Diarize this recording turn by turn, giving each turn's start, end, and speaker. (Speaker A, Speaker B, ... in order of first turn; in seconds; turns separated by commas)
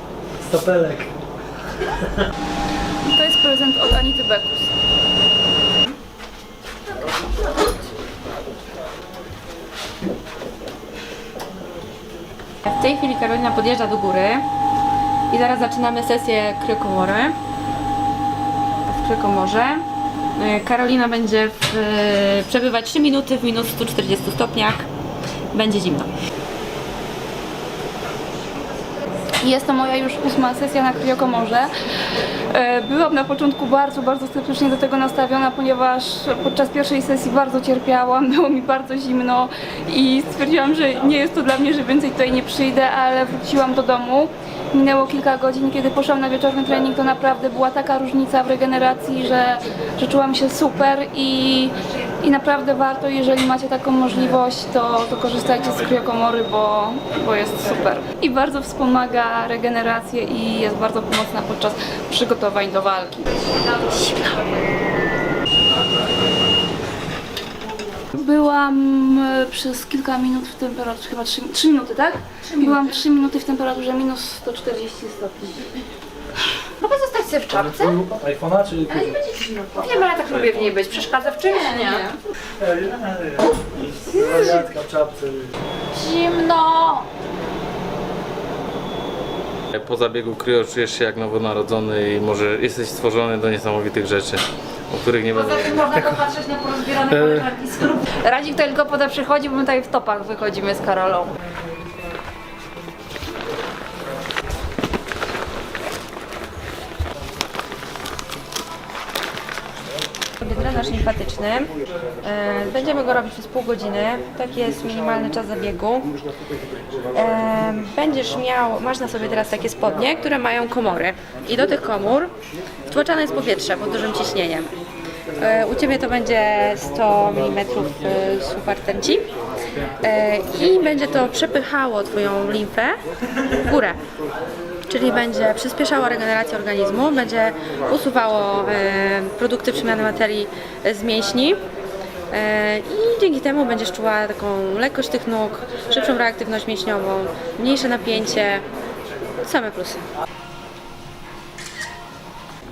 Speaker A: 0.4-1.1, Speaker B: 3.0-4.7, Speaker C: 12.7-14.5, Speaker C: 15.3-17.4, Speaker C: 18.9-19.9, Speaker C: 20.4-24.9, Speaker C: 25.5-26.1, Speaker B: 29.4-31.7, Speaker B: 32.5-63.4, Speaker B: 68.1-75.7, Speaker D: 76.8-78.0, Speaker A: 77.7-79.1, Speaker D: 78.9-82.0, Speaker E: 80.2-80.7, Speaker C: 81.7-82.0, Speaker A: 82.6-85.5, Speaker D: 85.9-87.1, Speaker E: 89.7-96.0, Speaker D: 95.3-101.3, Speaker A: 97.1-97.5, Speaker C: 110.4-116.2, Speaker C: 117.2-122.3, Speaker C: 122.9-124.7, Speaker C: 125.4-129.3, Speaker C: 130.0-133.0, Speaker C: 133.6-134.0, Speaker C: 134.9-141.6, Speaker C: 142.3-148.7, Speaker C: 149.4-150.1